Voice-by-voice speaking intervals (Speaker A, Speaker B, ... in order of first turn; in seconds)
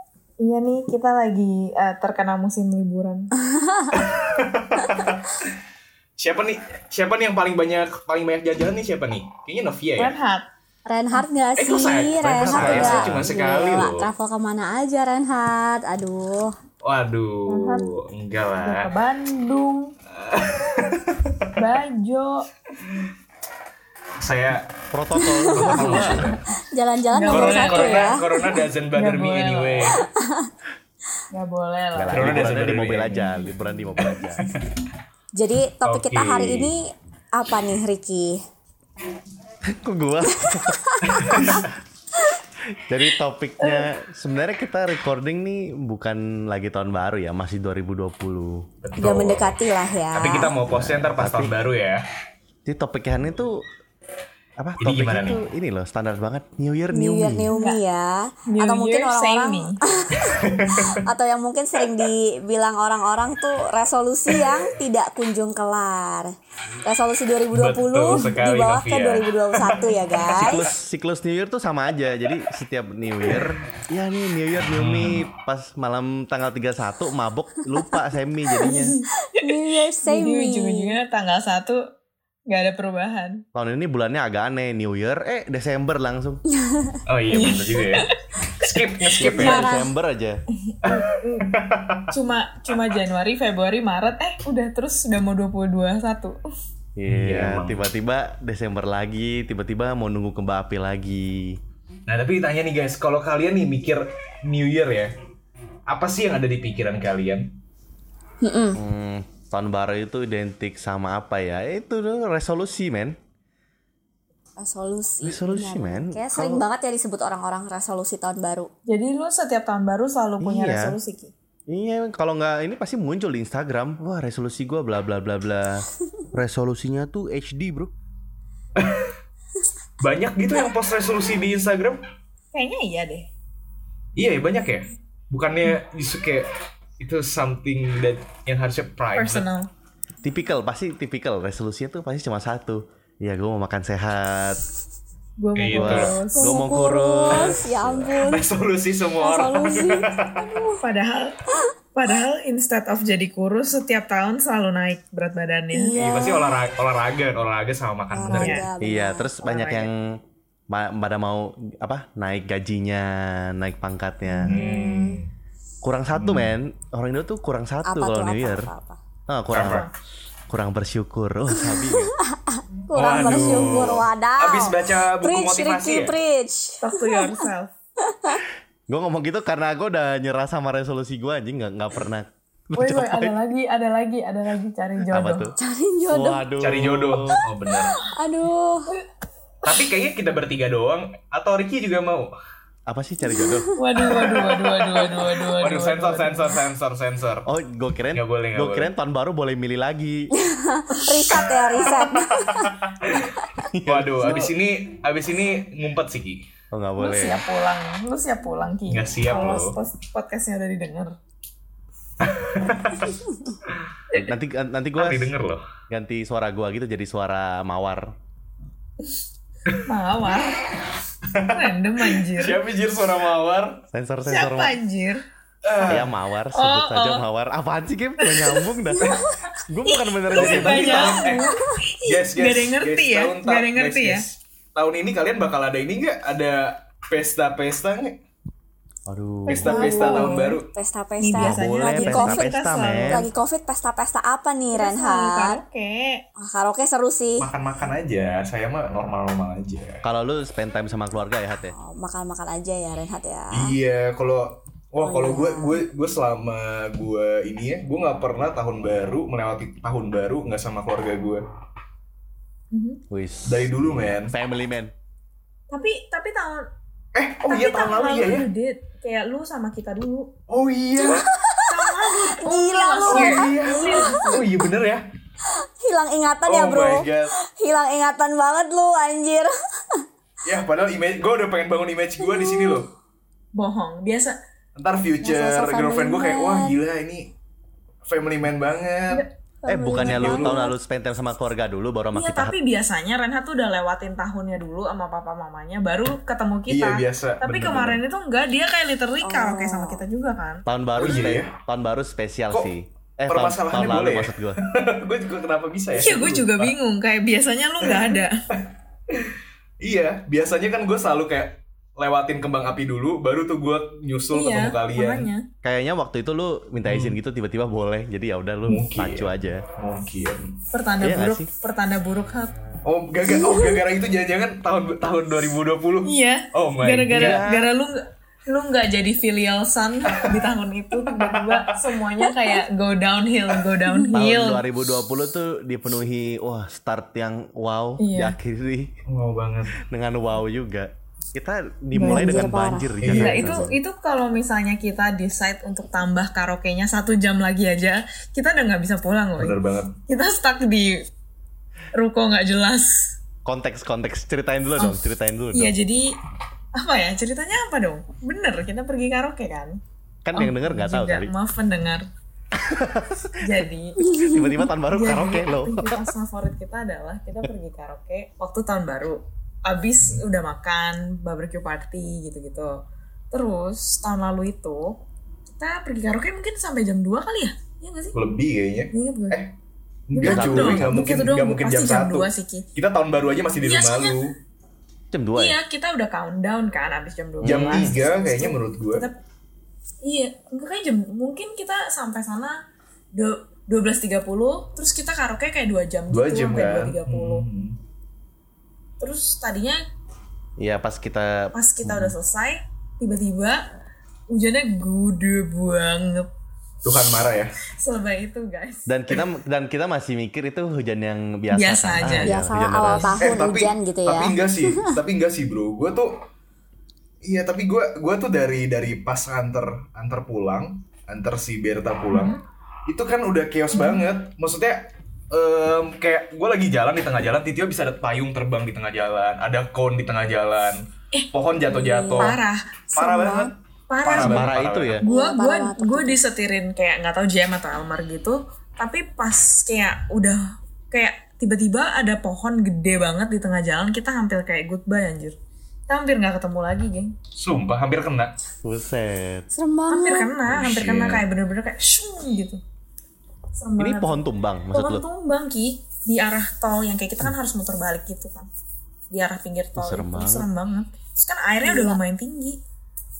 Speaker A: 0.4-3.3, 10.0-10.5, 17.5-17.8, 18.6-19.9, 21.6-22.4, 27.1-28.2, 28.9-29.9, 31.3-32.5, 57.5-57.8, 58.5-59.8, 78.6-81.8, 82.5-83.4, 87.3-88.1, 88.6-89.4, 90.5-91.5, 92.1-96.4, 118.9-121.3, 132.5-133.3, 139.1-139.7, 145.4-146.5, 150.8-151.4, 151.9-155.9, 158.3-158.7, 159.4-159.9, 176.8-177.7, 182.8-185.5, 193.8-196.5, 201.1-201.4, 204.2-204.5, 207.0-211.1, 219.8-220.6, 221.5-222.6, 224.3-225.2, 226.5-227.2, 228.2-229.1, 230.2-234.2, 239.5-240.6, 241.2-243.3, 244.7-246.2, 262.7-263.0, 265.7-266.6, 267.4-270.3, 271.7-274.4, 283.5-284.3, 292.1-300.6, 305.9-308.3, 314.3-315.4, 320.7-322.5, 326.0-334.6, 338.0-338.4, 341.9-342.4, 343.1-349.6, 350.1-351.1, 351.9-353.1, 355.5-356.1, 356.7-359.8, 360.3-362.1, 363.4-364.0, 364.9-372.8, 373.3-375.0, 375.6-378.2, 378.9-379.4, 380.1-382.6, 383.6-384.2, 385.4-389.2, 390.0-392.6, 393.1-397.4, 399.0-399.8, 401.5-403.6, 404.3-406.3, 407.8-409.2, 411.5-412.4, 422.1-422.4, 432.2-445.4, 445.9-447.1, 449.9-452.6, 453.6-454.2, 454.7-458.5, 459.1-462.6
Speaker B: 3.5-4.0, 10.8-16.5, 25.1-28.4, 29.9-30.5, 35.4-36.8, 37.4-38.4, 40.5-41.6, 49.0-50.5, 56.9-60.3, 61.0-66.3, 66.8-70.7, 79.2-80.9, 86.6-87.0, 89.3-89.9, 108.4-108.8, 114.6-118.7, 145.9-148.4, 149.2-150.8, 155.7-156.5, 158.1-159.3, 164.5-165.2, 167.8-169.0, 171.6-177.4, 178.1-178.4, 185.6-186.4, 187.8-188.9, 193.4-193.7, 200.3-202.8, 239.7-242.5, 243.0-245.6, 246.4-247.4, 251.7-253.7, 255.0-255.8, 271.0-271.7, 272.4-274.4, 275.8-280.0, 282.2-282.8, 285.2-286.8, 289.6-290.7, 299.2-300.0, 341.9-343.0, 364.0-364.6, 412.2-414.9, 431.6-432.4, 433.1-433.5, 435.0-436.2, 449.5-450.3, 461.6-462.0
Speaker C: 4.0-5.5, 6.2-10.1, 11.6-14.1, 16.8-18.9, 20.2-21.5, 24.2-24.6, 25.5-26.4, 27.3-30.0, 32.1-34.6, 35.8-36.7, 41.1-41.6, 48.8-49.5, 50.1-52.0, 54.8-55.4, 60.3-61.0, 67.5-69.9, 74.7-75.2, 87.1-89.7, 90.8-92.0, 97.1-97.8, 102.1-105.1, 105.9-107.5, 128.8-129.1, 130.0-132.0, 134.2-136.5, 137.0-139.4, 145.6-146.1, 148.3-150.5, 155.9-158.6, 164.3-165.3, 166.1-166.5, 169.5-169.9, 172.9-176.2, 186.6-188.0, 189.6-192.3, 195.3-197.4, 198.1-198.9, 202.4-203.2, 203.8-206.4, 208.9-209.8, 212.2-213.2, 214.9-215.6, 221.3-223.8, 225.6-226.1, 230.3-231.4, 232.0-238.2, 239.5-240.7, 247.4-250.0, 253.5-261.4, 263.4-264.3, 267.1-268.5, 270.5-271.3, 273.1-275.0, 276.4-277.3, 280.4-282.9, 284.8-287.3, 288.1-289.2, 289.9-290.6, 296.7-298.0, 301.0-301.5, 303.3-306.7, 307.8-308.2, 309.1-315.3, 316.8-317.1, 318.6-320.5, 322.8-327.4, 331.0-331.6, 339.1-339.8, 343.0-343.5, 349.4-349.9, 378.1-379.5, 380.1-384.3, 387.4-389.1, 396.1-397.8, 406.8-407.5, 413.2-416.1, 417.2-422.4, 422.9-432.4, 432.9-435.0, 447.3-448.3, 450.5-451.2
Speaker D: 12.4-13.3, 24.9-26.3, 31.9-34.4, 39.7-40.8, 42.8-48.6, 50.7-51.5, 52.6-53.6, 54.6-57.5, 70.4-78.9, 83.5-86.4, 89.2-90.4, 97.0-101.6, 108.8-113.2, 115.2-116.6, 120.4-120.9, 121.7-127.9, 140.2-144.6, 145.7-148.1, 158.8-160.2, 160.7-164.6, 165.8-168.7, 169.3-169.9, 170.5-172.1, 178.9-183.3, 185.1-185.5, 186.1-187.3, 192.9-193.7, 197.4-200.3, 203.7-204.1, 206.7-207.4, 214.2-215.3, 215.9-218.1, 223.9-224.8, 225.8-231.2, 239.1-239.8, 241.3-243.2, 250.0-251.7, 263.1-264.9, 289.7-292.5, 300.6-304.6, 315.6-319.7, 321.0-321.5, 327.1-327.7, 334.1-338.9, 339.8-343.8, 353.4-355.8, 360.2-361.3, 362.5-363.4, 364.2-366.0, 380.2-381.2, 385.1-385.6, 387.4-387.9, 400.6-402.1, 408.9-413.2, 434.1-435.0, 448.6-449.5, 453.8-455.0, 459.8-460.5